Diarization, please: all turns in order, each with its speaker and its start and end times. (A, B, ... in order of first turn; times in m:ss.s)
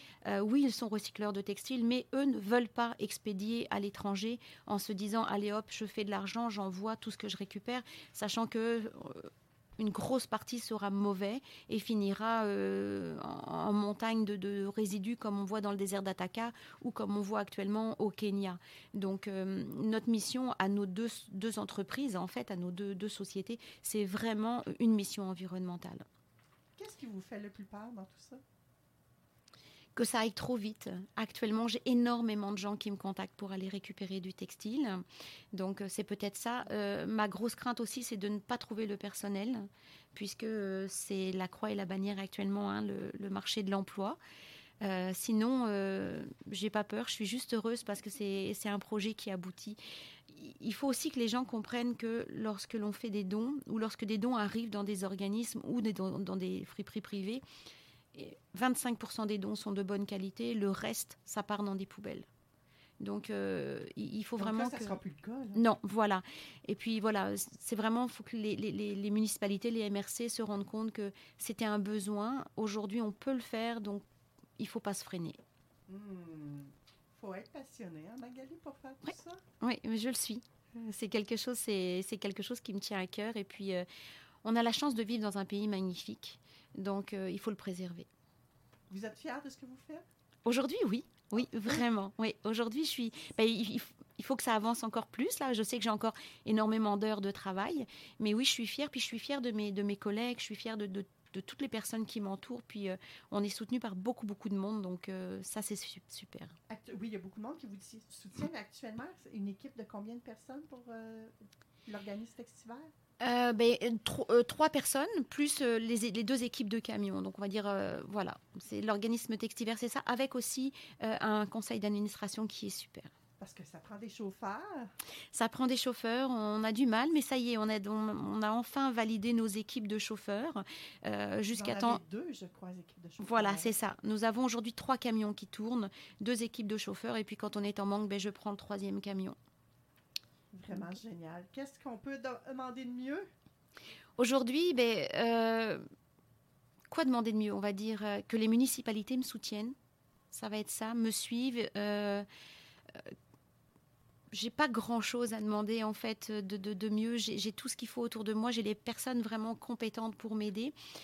0:00.2-0:26.0 A
0:26.8-0:28.4 B
0:30.0-0:44.2 A
0:44.8-0:49.8 A
0:50.3-0:57.4 A
0:58.1-1:02.2 A
1:03.0-1:05.0 A
1:04.4-1:05.6 B
1:05.5-1:14.0 A
1:14.6-1:15.4 A
1:15.9-1:19.4 B
1:19.0-1:23.8 A
1:24.4-1:28.1 A
1:28.9-1:30.0 B
1:30.4-1:46.5 A
1:31.4-1:31.8 B
1:46.7-1:51.3 B
1:51.8-1:52.9 B
1:53.2-2:03.1 A
2:03.4-2:04.9 B
2:05.3-2:12.0 A
2:11.5-2:13.7 B
2:13.2-2:19.4 A
2:20.5-2:23.3 B
2:24.2-2:25.8 A
2:26.9-2:29.7 A
2:30.3-2:32.2 A
2:34.3-2:40.7 A